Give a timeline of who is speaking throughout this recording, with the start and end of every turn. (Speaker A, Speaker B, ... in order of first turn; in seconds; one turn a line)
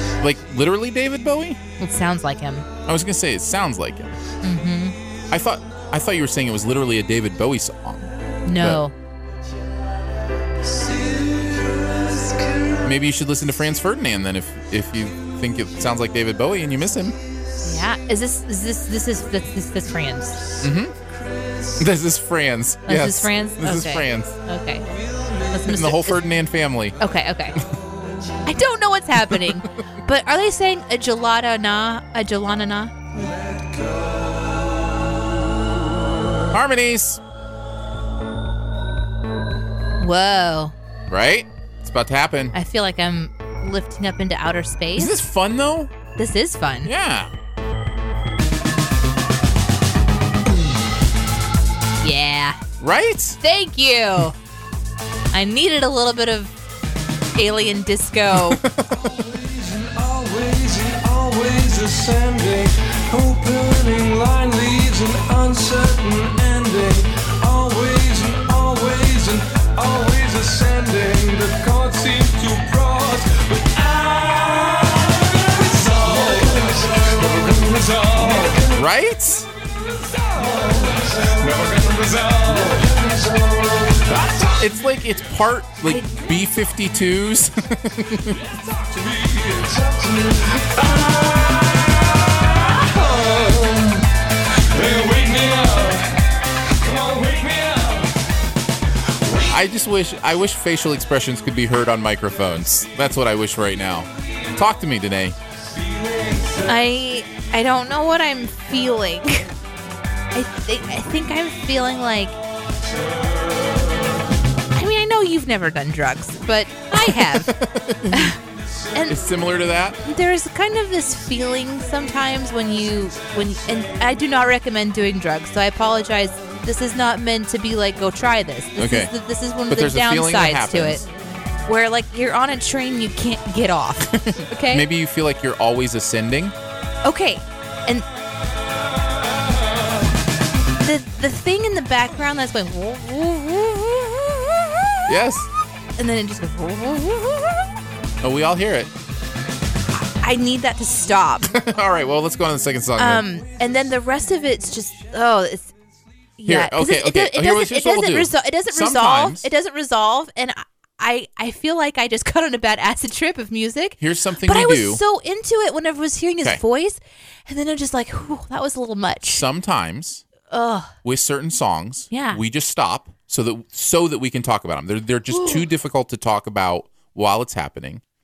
Speaker A: 0.2-1.6
Speaker B: 1.8-2.7
Speaker A: 2.9-4.1
Speaker B: 4.4-5.0
Speaker A: 5.3-8.8
Speaker B: 8.4-8.9
Speaker C: 10.6-12.9
Speaker A: 12.8-17.2
Speaker C: 17.2-17.6
Speaker B: 17.6-20.4
Speaker C: 20.3-21.9
Speaker A: 20.6-20.9
Speaker A: 21.8-24.4
Speaker B: 22.9-24.9
Speaker C: 24.8-25.8
Speaker B: 25.5-26.2
Speaker A: 25.7-27.0
Speaker B: 27.0-27.6
Speaker C: 27.6-28.4
Speaker B: 28.4-33.2
Speaker A: 29.2-29.6
Speaker C: 33.1-36.5
Speaker A: 36.5-37.2
Speaker B: 40.0-40.7
Speaker A: 41.1-42.5
Speaker B: 42.5-45.2
Speaker A: 45.0-45.9
Speaker B: 46.2-46.9
Speaker A: 46.8-47.3
Speaker B: 52.0-52.6
Speaker A: 52.8-53.4
Speaker B: 53.4-54.4
Speaker B: 55.3-56.5
Speaker B: 57.3-58.6
Speaker A: 58.3-59.1
Speaker C: 58.9-78.8
Speaker A: 78.7-79.5
Speaker C: 79.6-84.7
Speaker A: 84.5-88.4
Speaker B: 85.8-86.3
Speaker C: 88.3-98.1
Speaker A: 99.5-105.3
Speaker C: 104.3-104.5
Speaker C: 105.5-106.8
Speaker B: 106.7-109.5
Speaker B: 110.3-112.3
Speaker C: 112.8-114.2
Speaker B: 114.7-117.5
Speaker A: 116.9-118.3
Speaker B: 118.1-118.4
Speaker C: 118.8-119.8
Speaker B: 118.9-119.2
Speaker A: 119.1-120.0
Speaker B: 120.0-131.1
Speaker C: 122.2-124.2
Speaker A: 128.8-129.1
Speaker A: 129.7-131.1
Speaker B: 131.7-134.9
Speaker A: 134.1-136.5
Speaker B: 137.0-138.1
Speaker B: 140.8-145.1
Speaker A: 145.1-145.5
Speaker B: 146.0-147.7
Speaker A: 148.2-148.9
Speaker B: 149.9-151.6
Speaker A: 151.5-153.3
Speaker B: 152.9-155.7
Speaker B: 156.4-169.4
Speaker A: 156.4-159.5
Speaker A: 164.0-165.0
Speaker A: 169.2-170.3
Speaker B: 170.5-170.9
Speaker A: 171.0-178.0
Speaker B: 172.1-172.4
Speaker B: 175.3-175.7